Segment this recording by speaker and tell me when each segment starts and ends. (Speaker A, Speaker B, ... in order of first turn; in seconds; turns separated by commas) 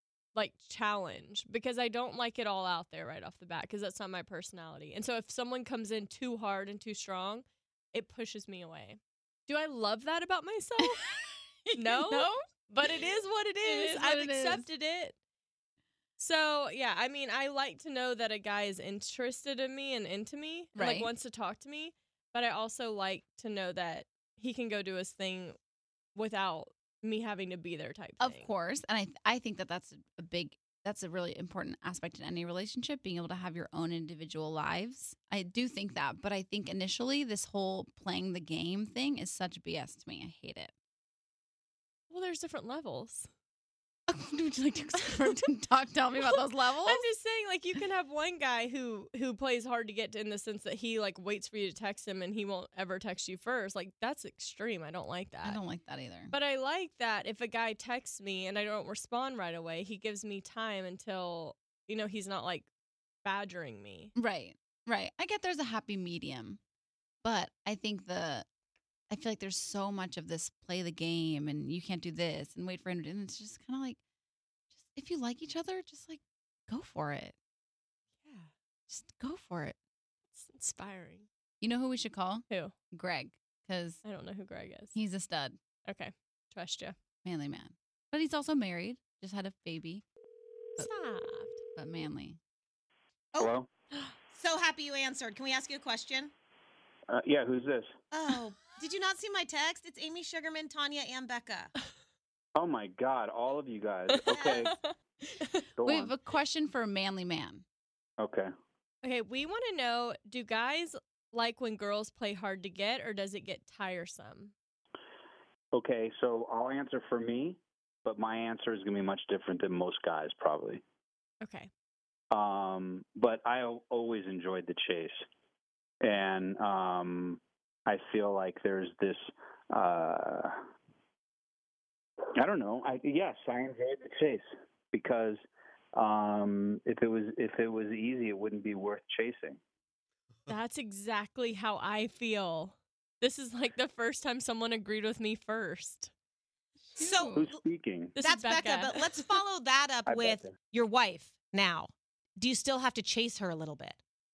Speaker A: 0.3-11.0, Speaker B: 10.8-13.0, Speaker A: 11.7-15.2, Speaker B: 13.6-14.7, Speaker A: 16.2-25.6, Speaker B: 20.8-21.1, Speaker A: 26.1-28.5, Speaker B: 28.2-40.7, Speaker A: 42.1-43.3, Speaker B: 44.1-47.1, Speaker A: 46.8-55.6, Speaker B: 55.4-56.3, Speaker A: 56.3-62.7, Speaker A: 63.2-64.1, Speaker B: 64.2-66.6, Speaker B: 67.2-68.5, Speaker B: 69.1-74.0, Speaker B: 74.8-77.4, Speaker A: 78.2-78.5, Speaker B: 78.9-79.8, Speaker A: 80.3-81.3, Speaker B: 81.6-84.0, Speaker A: 84.0-85.0, Speaker B: 84.9-85.6, Speaker A: 85.9-87.0, Speaker B: 87.2-90.0, Speaker A: 90.8-91.6, Speaker B: 91.8-92.4, Speaker C: 93.4-93.7, Speaker D: 94.3-96.3, Speaker C: 97.1-98.0, Speaker D: 98.1-101.7, Speaker C: 102.6-104.8, Speaker A: 104.1-105.7, Speaker D: 104.3-104.7, Speaker C: 105.8-106.1, Speaker B: 105.8-107.6, Speaker C: 108.2-108.5, Speaker A: 109.0-114.5, Speaker C: 115.7-120.8, Speaker A: 121.4-121.7, Speaker C: 122.3-125.2, Speaker C: 126.0-130.7, Speaker C: 132.4-135.4, Speaker C: 135.9-139.6, Speaker A: 140.5-146.1, Speaker B: 146.9-147.5, Speaker D: 147.0-147.6, Speaker C: 147.3-148.2, Speaker A: 148.2-149.3, Speaker D: 148.2-154.0, Speaker C: 150.1-150.6